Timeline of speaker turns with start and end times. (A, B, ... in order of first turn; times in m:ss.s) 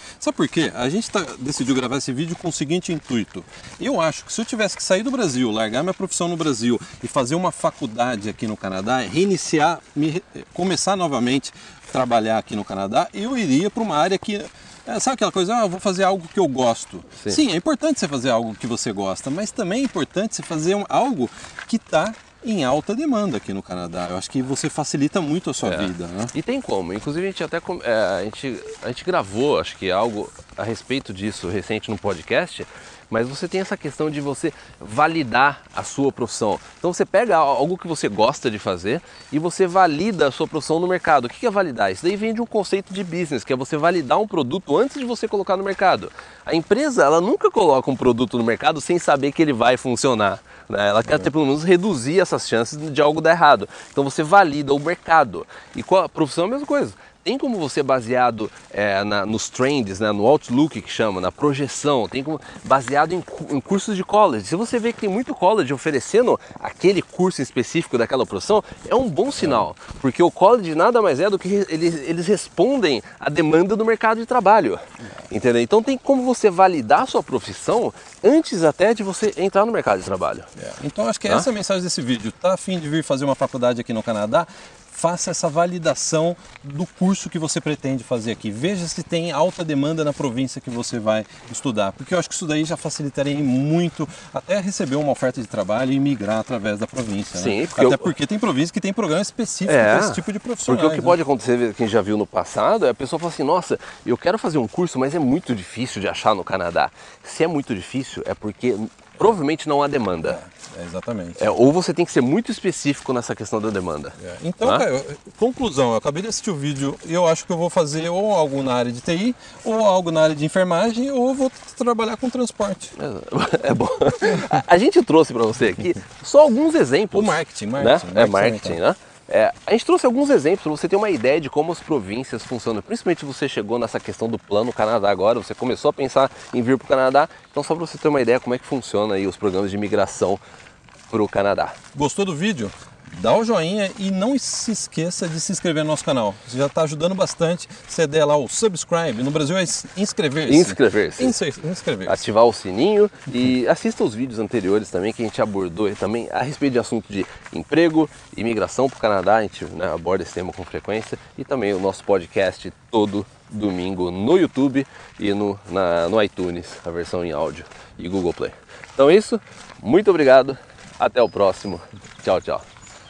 0:00.2-0:26.3 A
0:25.6-1:20.5 B
1:20.6-1:41.2 A
1:37.3-1:38.1 B
1:39.6-1:50.4 B
1:50.2-1:51.5 A
1:51.4-1:54.8 B
1:54.2-2:02.9 A
2:03.0-2:20.4 B
2:07.1-2:08.8 A
2:21.1-2:21.8 B
2:21.9-2:32.2 A
2:30.4-2:31.4 B
2:32.0-2:52.6 B